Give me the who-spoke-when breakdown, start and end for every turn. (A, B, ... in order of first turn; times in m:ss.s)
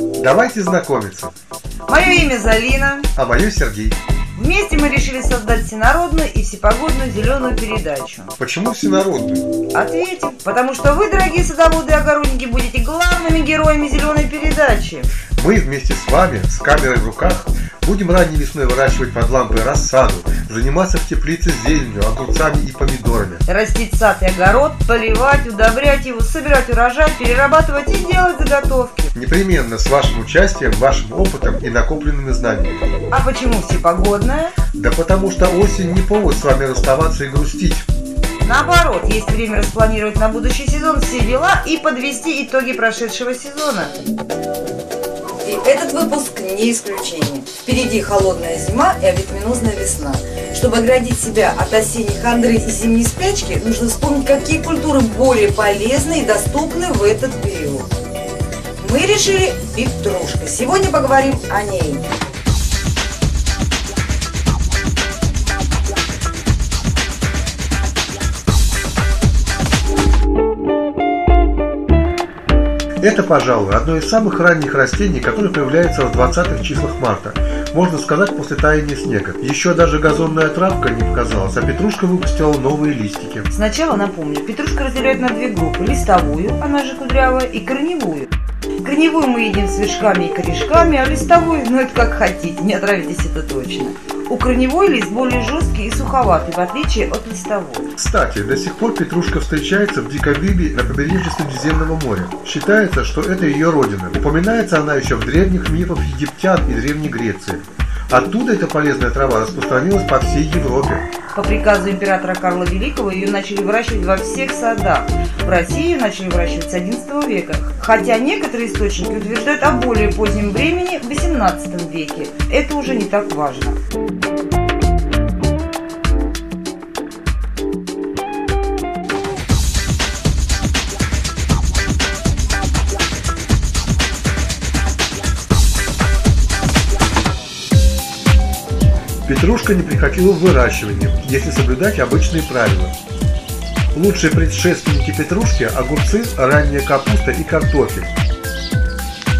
0:00.2-0:01.3 A
0:01.9-0:03.1 B
0:03.2-0:04.0 A
0:04.4-0:08.4 B
0:08.4-0:09.5 A
0:09.7-0:15.2 B
0:15.4-0:23.4 A
0:23.5-0:29.1 B
0:29.1-0:32.8 A
0:33.1-0:34.6 B
0:34.8-0:37.9 A
0:38.4-0:44.0 B
0:45.4-0:57.9 C
0:58.8-1:02.0 C
1:13.0-1:23.5 A
1:23.5-1:28.3 B
1:28.8-1:37.9 B
1:38.0-1:51.1 A
1:51.3-2:03.8 B
2:19.2-2:23.0 A
2:23.9-2:28.1 A